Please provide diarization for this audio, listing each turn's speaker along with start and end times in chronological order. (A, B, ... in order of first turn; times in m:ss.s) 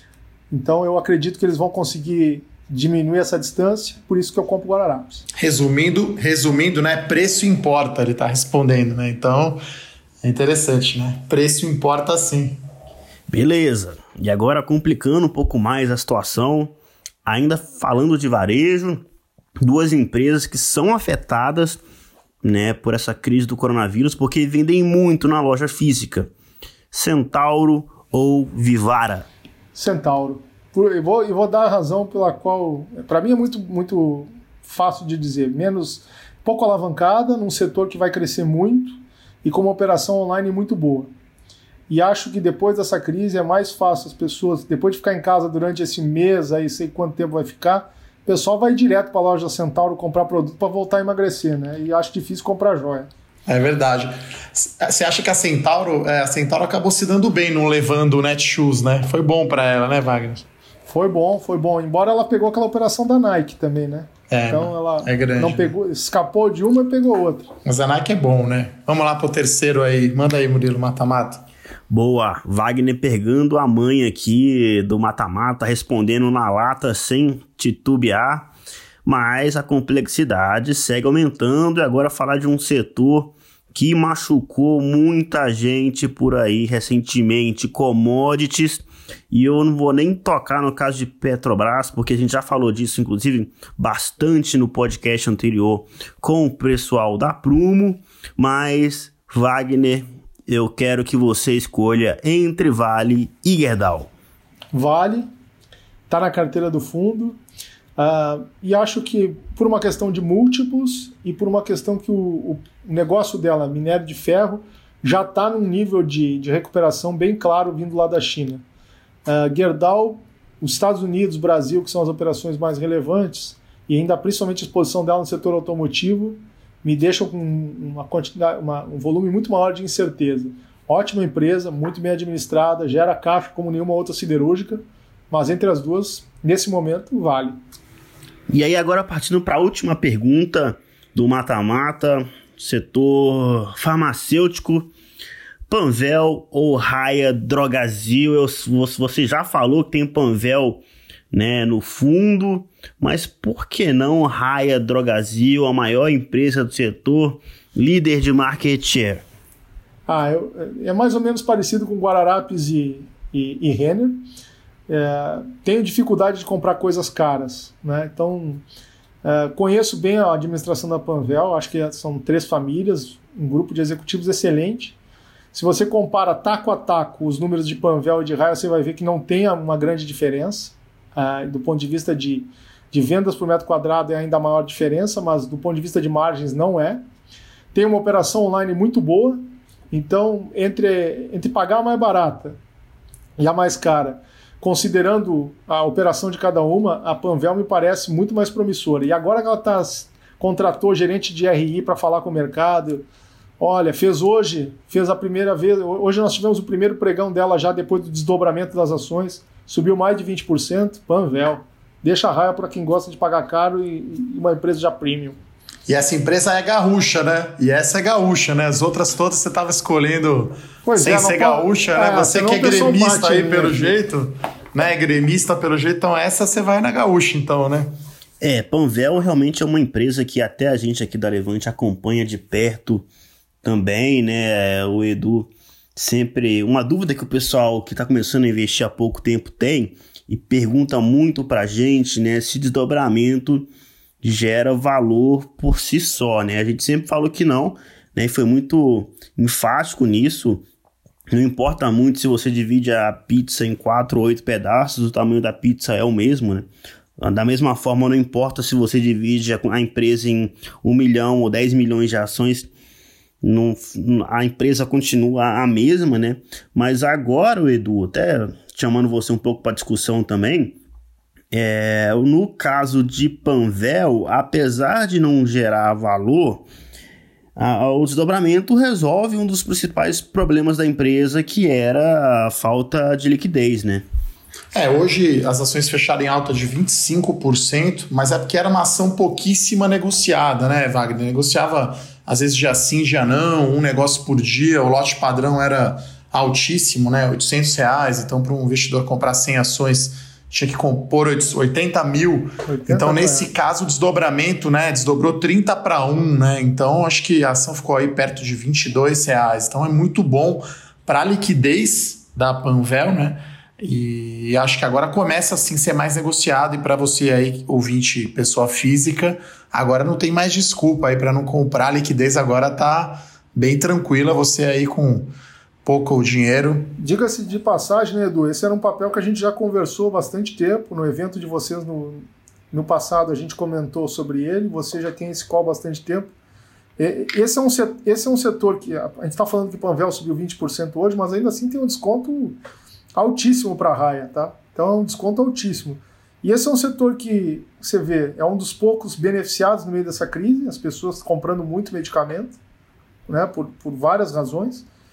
0:00.5-0:05.2 A
0:05.4-0:09.6 B
0:10.2-0:12.6 B
0:13.3-0:16.7 C
0:17.2-0:19.0 C
0:19.6-0:21.8 C
0:22.4-0:26.3 C
0:26.9-0:29.3 C
0:29.7-0:41.1 A
0:41.9-0:53.1 A
0:53.5-1:00.4 B
1:00.9-1:07.5 A
1:04.3-1:05.7 B
1:07.6-1:11.4 B
1:11.9-1:18.5 C
1:19.0-1:44.1 C
1:44.7-1:45.3 A
1:46.1-1:47.4 A
1:48.0-1:58.6 A
1:59.2-2:17.6 A
2:18.5-2:24.9 C
2:25.7-2:39.2 C
2:40.1-2:44.2 A
2:44.9-2:48.6 A
2:49.2-2:55.0 A
2:55.5-3:07.0 A
3:07.7-3:12.6 A
3:13.4-3:23.0 A
3:23.6-3:35.4 A
3:35.9-3:47.9 B
3:40.8-3:44.0 A
3:48.4-3:53.1 C
3:53.6-4:03.7 C
4:04.2-4:10.6 C
4:11.3-4:16.7 C
4:17.2-4:22.7 C
4:23.4-4:30.8 C
4:31.5-4:36.6 C
4:37.6-4:44.0 C
4:44.7-5:25.3 B
5:02.6-5:03.5 A
5:25.8-5:27.0 B
5:27.0-5:36.3 A
5:37.0-5:42.6 A
5:43.2-5:52.6 A
5:53.3-5:54.8 A